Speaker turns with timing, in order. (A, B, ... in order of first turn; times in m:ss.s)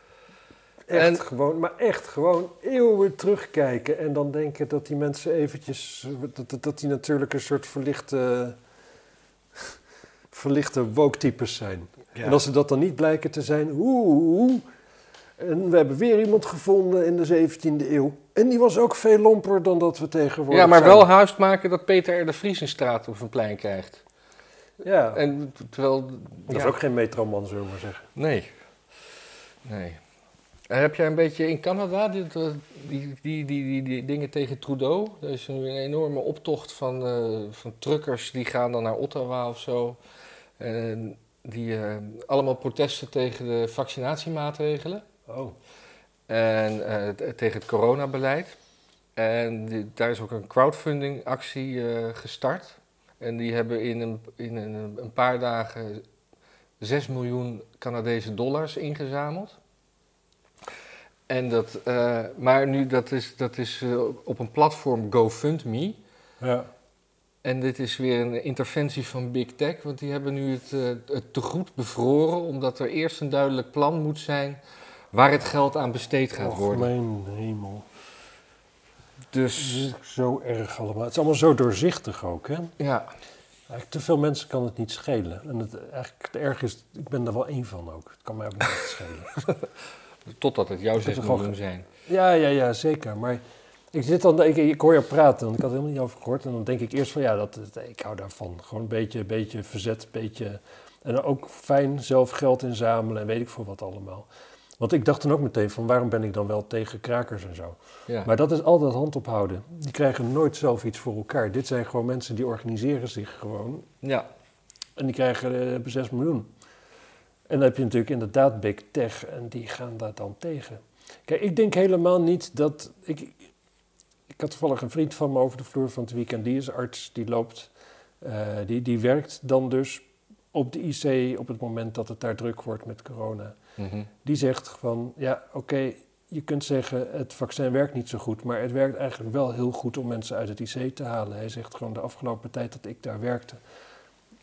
0:00.9-0:08.6 A
0:00.9-0:01.2 B
0:10.3-0:14.6 A
0:12.2-0:12.4 B
0:15.4-0:21.1 A
0:20.5-0:24.0 B
0:24.8-0:25.2 A
0:25.1-0:26.8 B
0:26.5-0:28.1 A
0:28.2-0:28.5 B
0:29.6-0:30.0 B
0:30.7-0:40.0 B
0:40.6-0:45.0 B
0:45.3-0:45.6 A
0:46.3-0:48.6 B
0:49.2-0:56.0 B
0:56.8-0:59.6 B
1:01.3-1:06.0 B
1:06.4-1:06.7 A
1:07.4-1:14.6 B
1:15.1-1:16.9 B
1:16.4-1:17.9 A
1:19.3-1:19.9 B
1:19.6-1:22.7 A
1:22.8-1:23.1 B
1:23.7-1:29.4 A
1:30.3-1:31.9 B
1:31.0-1:31.6 A
1:32.1-1:44.3 A
1:44.8-1:53.9 A
1:54.0-1:54.3 B
1:55.0-1:56.5 A
1:57.5-2:03.5 A
2:04.3-2:13.6 A
2:13.8-2:14.1 B
2:14.2-2:23.6 A